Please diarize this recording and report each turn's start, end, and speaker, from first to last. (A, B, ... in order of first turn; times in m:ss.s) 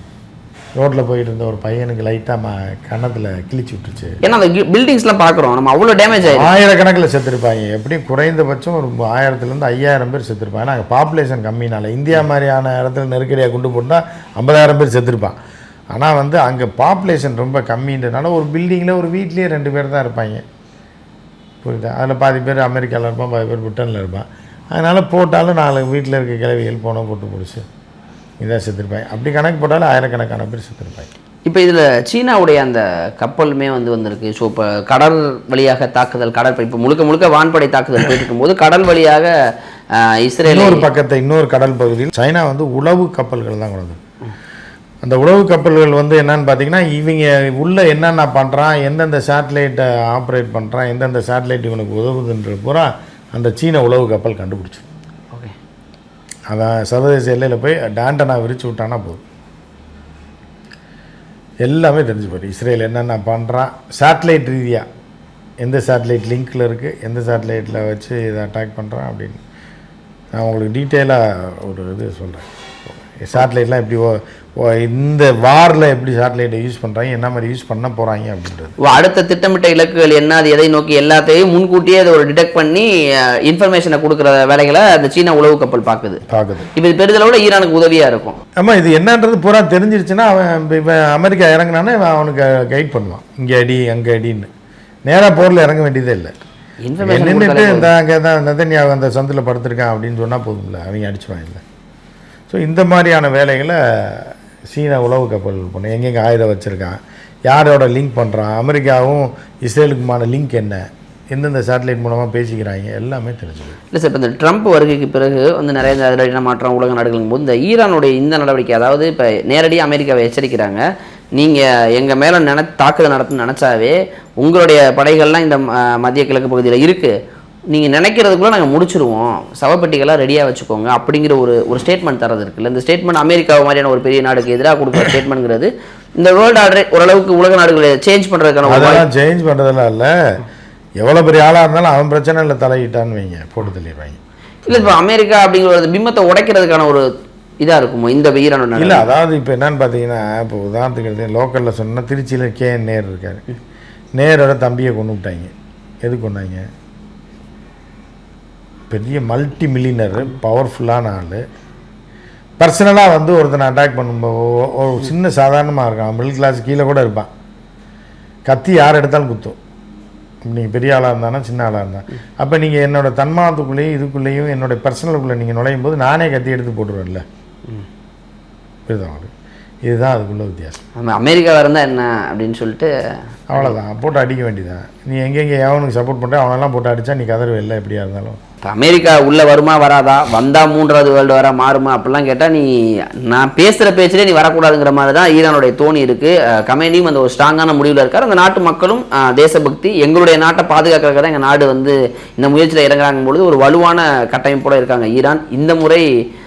0:00.8-0:04.2 A
0:04.2-0:06.5 B
0:06.2-0:15.3 A
0:15.9-0:20.4 A
0:21.6-0:27.6 A
0:28.4-0:31.1 A
0:31.4-0:39.3 B
0:40.0-0:40.9 B
0:40.4-0:44.0 A
0:45.0-0:54.8 A
0:56.5-0:59.2 A
1:01.6-1:04.8 A
1:05.6-1:09.4 A
1:10.4-1:18.8 A
1:18.8-1:26.2 B
1:26.3-1:26.7 A
1:26.8-1:28.4 B
1:28.6-1:34.5 A
1:35.1-1:36.3 A
1:36.8-1:37.9 B
1:37.0-1:41.6 A
1:42.5-1:53.8 A
1:53.9-2:07.1 B
2:07.7-2:19.0 B
2:18.6-2:20.1 A
2:21.0-2:25.0 A
2:24.6-2:27.0 B
2:27.6-2:29.1 B
2:28.8-2:33.4 A
2:34.2-2:35.5 A
2:36.0-2:36.6 A
2:38.9-2:41.4 A
2:42.6-2:47.3 A
2:48.5-2:49.6 A
2:50.4-2:57.2 A
2:58.9-2:59.3 A
2:59.8-3:00.8 A
3:01.0-3:02.9 B
3:03.5-3:08.4 A
3:08.6-3:26.1 B